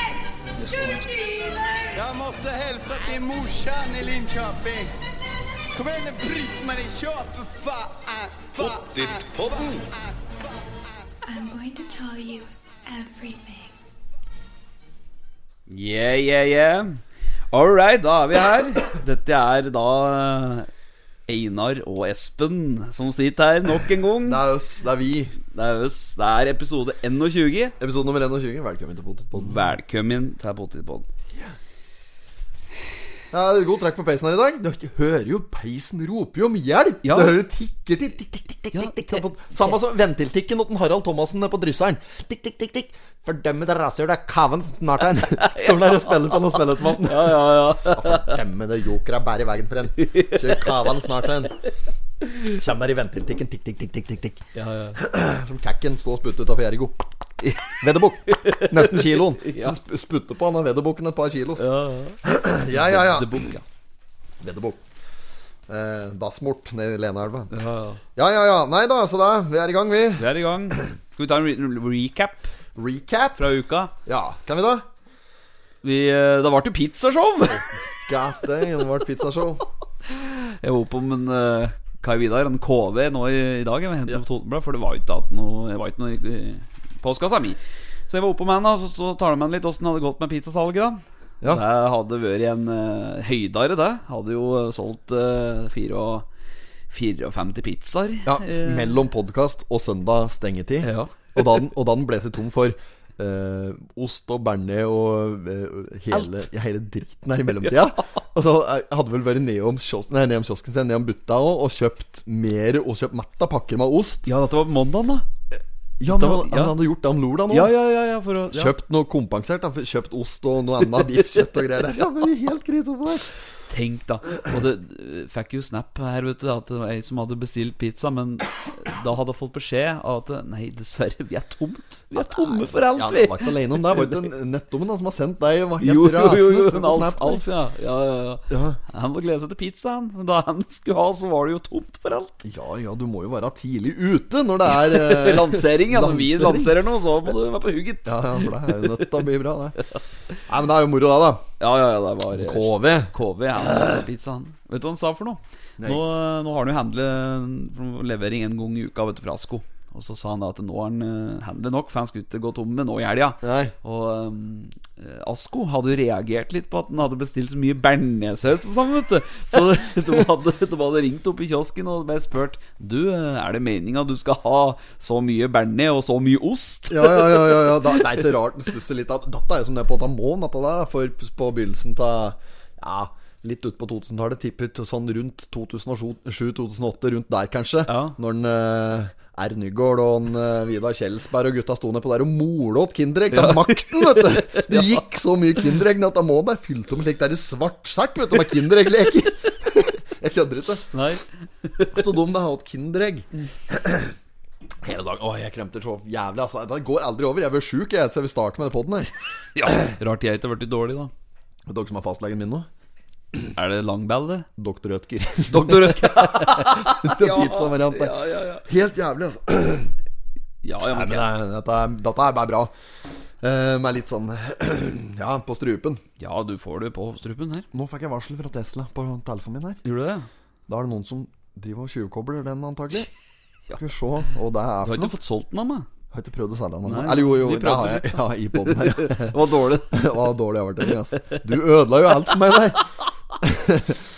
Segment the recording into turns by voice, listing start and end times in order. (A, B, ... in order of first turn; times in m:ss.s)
0:00.5-0:04.9 A
0:05.7-0:10.5 A
0:11.3-0:13.8 B
0:15.7-0:17.0 C
0:17.5-0:20.7 C
0:21.3-0:24.4 C
0:24.2-0:25.4 D
0:25.4-0:27.8 C
0:27.8-0:29.6 D
0:29.4-0:31.1 C
0:33.3-0:51.6 D
0:37.0-0:37.4 C
0:38.7-0:39.2 C
0:45.3-0:48.4 C
0:50.0-0:50.9 C
0:52.4-0:54.4 D
0:54.6-0:55.0 C
0:55.0-0:57.1 D
0:57.4-0:59.8 C
0:57.8-1:01.7 D
1:01.6-1:03.6 C
1:02.2-1:03.4 D
1:04.4-1:04.8 D
1:05.7-1:07.5 D
1:07.5-1:08.0 C
1:08.2-1:10.3 D
1:10.2-1:12.5 C
1:12.8-1:13.4 D
1:13.4-1:13.9 C
1:14.0-1:14.9 D
1:15.8-1:17.8 C
1:18.1-1:19.6 D
1:20.1-1:36.3 C
1:36.9-1:39.0 C
1:38.2-1:54.3 D
1:40.8-1:41.4 C
1:46.1-1:46.4 C
1:54.3-1:55.3 C
1:56.0-1:57.7 D
1:56.1-1:56.8 C
1:57.5-1:58.8 C
1:58.5-2:03.3 D
2:03.7-2:14.2 C
2:12.2-2:17.4 D
2:15.8-2:22.4 C
2:18.5-2:18.8 D
2:22.4-2:27.3 D
2:24.7-2:29.2 C
2:28.1-2:29.8 D
2:30.5-2:31.4 D
2:31.6-2:58.2 C
2:32.3-2:33.1 D
2:43.4-2:43.7 D
2:56.9-3:20.9 D
3:07.9-3:08.2 C
3:13.3-3:15.0 C
3:20.9-3:22.0 C
3:21.9-3:24.2 D
3:24.8-3:29.1 D
3:29.6-3:31.1 C
3:31.7-3:32.7 D
3:33.6-3:34.5 C
3:34.6-3:39.9 D
3:35.5-3:38.6 C
3:40.6-3:41.3 C
3:40.8-3:42.7 D
3:43.4-3:46.0 D
3:46.2-3:47.7 C
3:47.7-3:49.8 D
3:49.8-3:50.3 C
3:50.7-3:53.1 D
3:53.8-3:55.2 D
3:54.8-3:55.9 C
3:56.1-4:04.0 D
3:56.8-4:00.1 C